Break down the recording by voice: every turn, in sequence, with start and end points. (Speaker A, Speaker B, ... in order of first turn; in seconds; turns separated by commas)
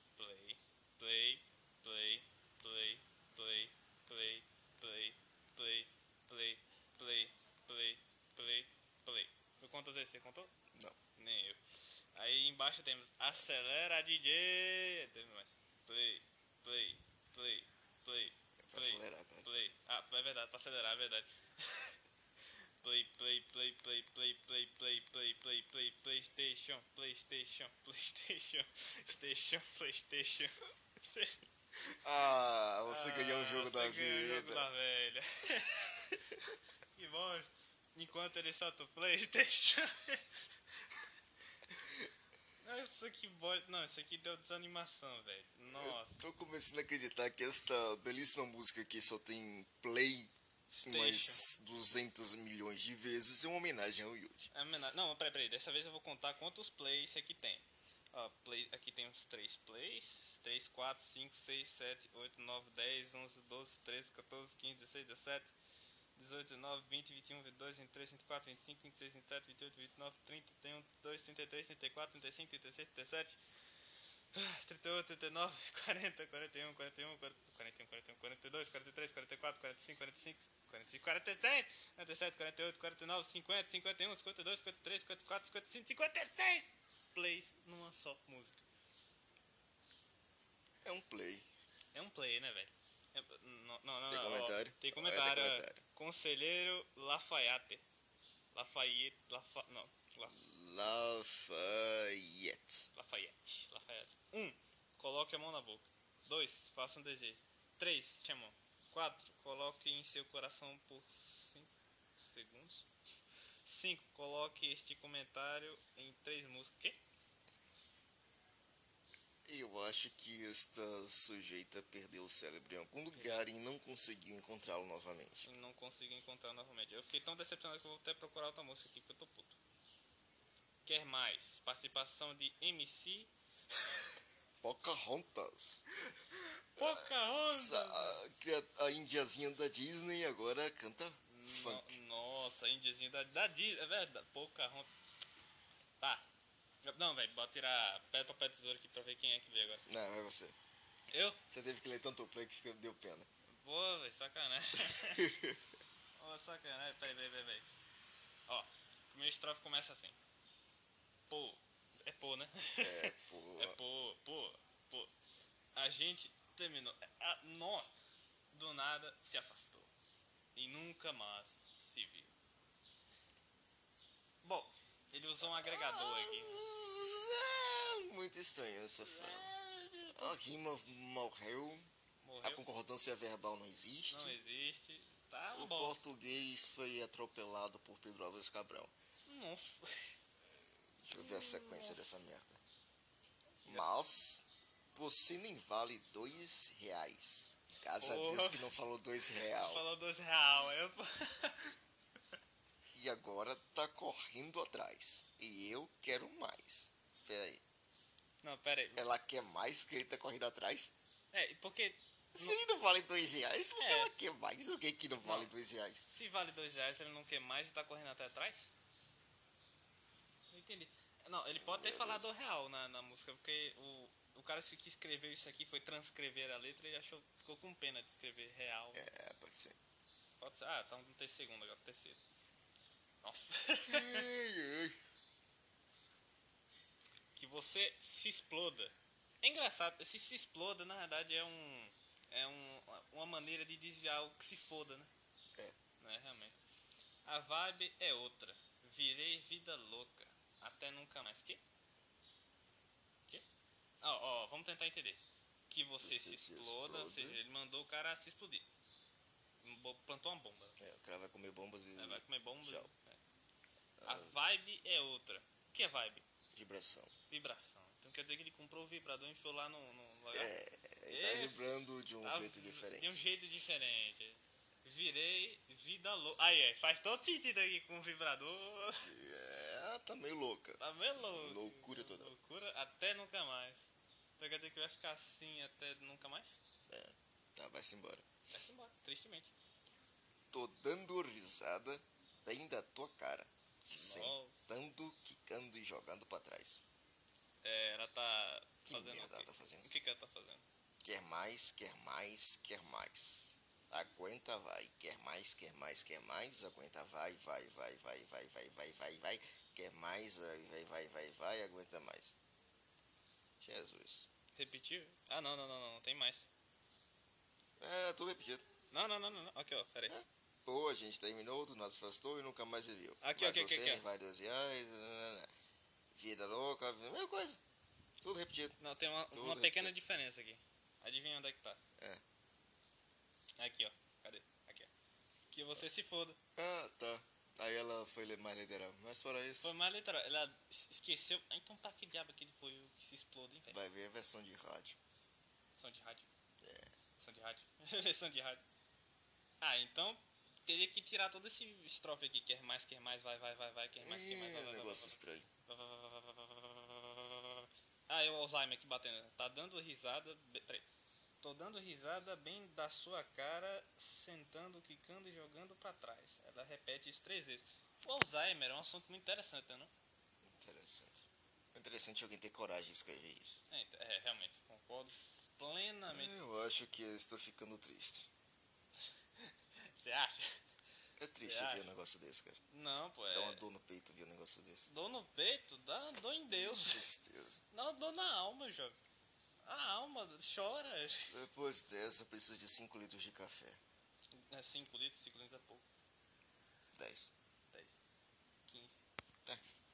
Speaker A: 0.2-10.5, Speaker A: 11.2-11.6, Speaker A: 12.2-22.0, Speaker B: 18.7-19.5, Speaker A: 22.8-31.4, Speaker B: 32.0-34.7, Speaker A: 32.9-40.4, Speaker A: 42.6-46.3, Speaker B: 45.7-50.3, Speaker A: 50.7-51.5, Speaker B: 50.9-54.5, Speaker A: 54.5-65.5, Speaker A: 66.2-73.4, Speaker A: 74.3-88.7, Speaker B: 90.8-91.5, Speaker A: 91.9-97.8, Speaker B: 94.1-95.8, Speaker A: 98.5-100.3, Speaker B: 100.3-102.9, Speaker A: 102.9-111.7, Speaker A: 112.3-112.9, Speaker A: 113.7-117.0, Speaker B: 119.5-125.5, Speaker A: 123.1-123.5, Speaker A: 125.5-129.6, Speaker A: 130.8-133.3, Speaker B: 134.6-135.8, Speaker A: 136.8-138.2, Speaker B: 136.8-142.0, Speaker A: 141.3-144.9, Speaker A: 146.0-146.3, Speaker A: 146.8-149.8, Speaker B: 149.9-150.6, Speaker A: 151.1-151.4, Speaker B: 151.5-153.3, Speaker A: 153.6-155.3, Speaker B: 154.9-155.6, Speaker A: 156.2-157.7, Speaker A: 158.5-160.2, Speaker A: 161.3-165.1, Speaker B: 162.8-163.8, Speaker A: 165.8-167.9, Speaker A: 168.5-169.9, Speaker A: 170.6-172.3, Speaker A: 174.4-176.7, Speaker B: 175.4-179.5, Speaker A: 179.0-180.4, Speaker B: 180.1-181.9, Speaker A: 182.2-182.6, Speaker B: 182.4-184.4, Speaker A: 184.1-186.1, Speaker B: 185.5-188.9, Speaker A: 189.3-190.2, Speaker B: 191.0-192.6, Speaker A: 191.2-192.3, Speaker B: 193.7-199.9, Speaker A: 193.7-194.0, Speaker A: 197.9-198.7, Speaker A: 199.4-201.8, Speaker B: 202.9-207.6, Speaker A: 208.4-209.1, Speaker B: 209.0-210.9, Speaker A: 211.3-212.6, Speaker B: 212.3-216.1, Speaker A: 213.8-214.1, Speaker A: 215.2-215.5, Speaker A: 216.0-218.7, Speaker A: 220.5-229.1, Speaker B: 221.6-222.3, Speaker B: 228.9-229.8, Speaker A: 230.4-232.2, Speaker A: 233.2-234.3, Speaker B: 233.9-235.0, Speaker A: 237.4-245.1, Speaker A: 246.0-246.6, Speaker A: 247.2-251.6, Speaker A: 254.0-258.6, Speaker B: 256.0-257.4, Speaker A: 259.6-260.8, Speaker B: 260.8-262.9, Speaker A: 262.0-263.2, Speaker B: 264.0-264.4, Speaker A: 264.0-266.2, Speaker B: 266.5-267.1, Speaker A: 267.3-270.5, Speaker B: 270.3-273.2, Speaker A: 271.1-271.7, Speaker A: 272.2-279.1, Speaker B: 278.9-282.3, Speaker A: 280.8-286.6, Speaker B: 286.9-288.2, Speaker A: 288.5-289.5, Speaker B: 290.5-296.8, Speaker A: 293.9-294.7, Speaker A: 297.6-300.6, Speaker B: 298.9-299.9, Speaker B: 301.0-312.4, Speaker B: 313.6-314.3, Speaker A: 314.6-316.5, Speaker B: 317.8-318.6, Speaker A: 318.9-320.1, Speaker B: 320.1-325.5, Speaker A: 323.2-324.0, Speaker B: 326.1-327.6, Speaker B: 328.2-328.8, Speaker A: 328.8-331.8, Speaker B: 329.3-329.9, Speaker A: 333.6-334.9, Speaker A: 335.5-336.4, Speaker B: 336.6-339.7, Speaker A: 339.6-343.8, Speaker B: 343.7-345.0, Speaker A: 345.8-346.3, Speaker B: 346.6-346.9, Speaker A: 347.2-348.6, Speaker A: 349.6-360.9, Speaker B: 354.0-355.5, Speaker A: 361.4-369.9, Speaker B: 370.4-373.6, Speaker A: 373.7-376.3, Speaker B: 376.1-378.3, Speaker A: 379.4-380.5, Speaker B: 381.2-382.6, Speaker A: 381.4-381.9, Speaker A: 382.7-383.6, Speaker B: 383.3-384.9, Speaker A: 384.9-387.1, Speaker B: 386.5-387.6, Speaker A: 387.7-389.0, Speaker A: 389.6-391.4, Speaker B: 391.3-393.8, Speaker A: 394.3-395.9, Speaker B: 396.9-397.3, Speaker A: 398.7-399.0